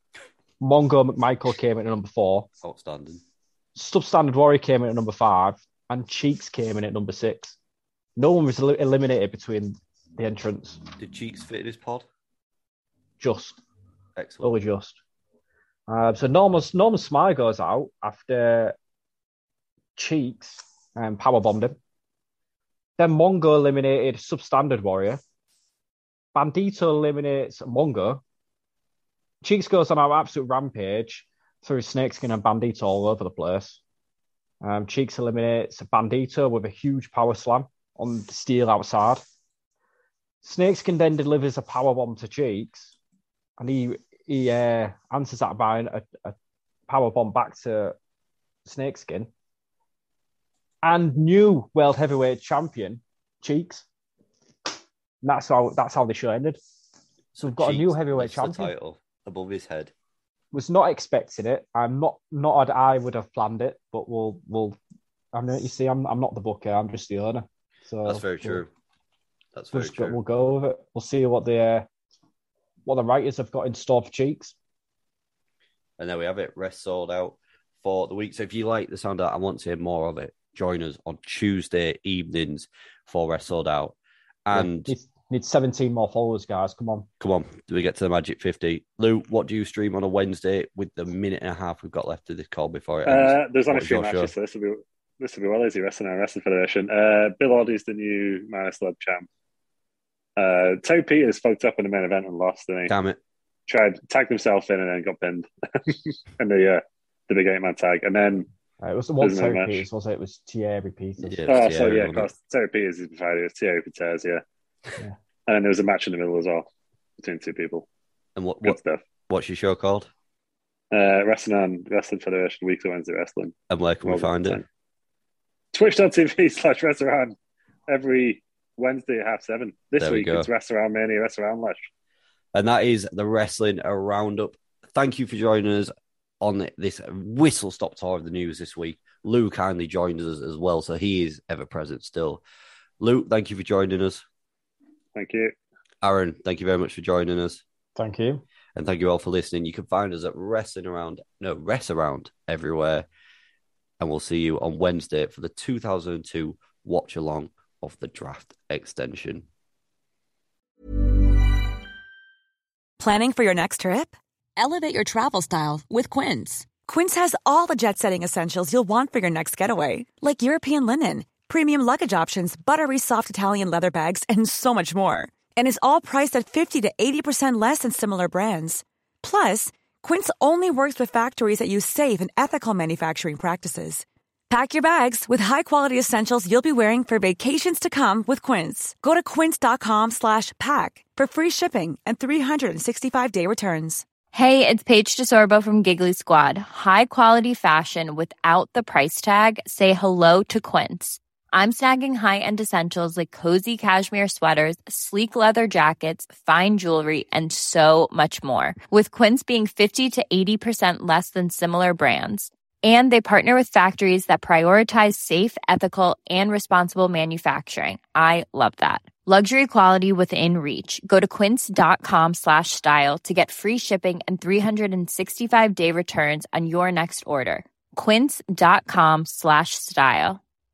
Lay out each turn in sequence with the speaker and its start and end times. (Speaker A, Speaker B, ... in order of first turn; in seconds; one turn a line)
Speaker A: 0.6-2.5
Speaker B: 2.6-3.2
Speaker A: 3.8-7.6
Speaker A: 8.2-10.8
Speaker B: 11.0-12.1
Speaker A: 13.2-13.6
Speaker B: 14.2-14.5
Speaker A: 14.4-15.0
Speaker A: 15.9-18.7
Speaker A: 19.9-21.8
Speaker A: 23.0-25.2
Speaker A: 26.3-28.2
Speaker A: 29.4-33.8
Speaker A: 34.6-39.2
Speaker A: 40.4-42.9
Speaker A: 43.6-46.3
Speaker A: 46.9-48.0
Speaker A: 48.6-49.3
Speaker A: 50.8-53.8
Speaker A: 55.2-56.6
Speaker B: 57.3-59.9
Speaker A: 57.4-58.7
Speaker A: 60.5-64.8
Speaker A: 65.3-68.6
Speaker B: 68.0-68.7
Speaker B: 69.5-70.2
Speaker A: 69.7-71.9
Speaker A: 72.8-74.5
Speaker B: 76.0-84.9
Speaker A: 84.5-87.1
Speaker B: 87.2-94.3
Speaker C: 93.0-99.2
Speaker C: 100.4-102.9
Speaker B: 102.9-103.2
Speaker C: 103.7-108.5
Speaker A: 108.8-111.6
Speaker C: 109.2-109.8
Speaker B: 111.2-112.3
Speaker C: 111.5-114.4
Speaker C: 115.5-116.7
Speaker C: 117.2-117.9
Speaker B: 118.3-120.1
Speaker C: 118.6-119.0
Speaker C: 120.9-124.6
Speaker B: 123.7-124.6
Speaker C: 125.7-127.3
Speaker C: 127.9-131.8
Speaker B: 130.0-130.5
Speaker B: 132.5-142.4
Speaker B: 143.0-144.2
Speaker C: 145.2-145.5
Speaker B: 146.0-147.6
Speaker A: 148.0-148.4
Speaker B: 148.8-153.1
Speaker B: 154.0-159.4
Speaker D: 163.0-194.0
Speaker E: 194.3-230.4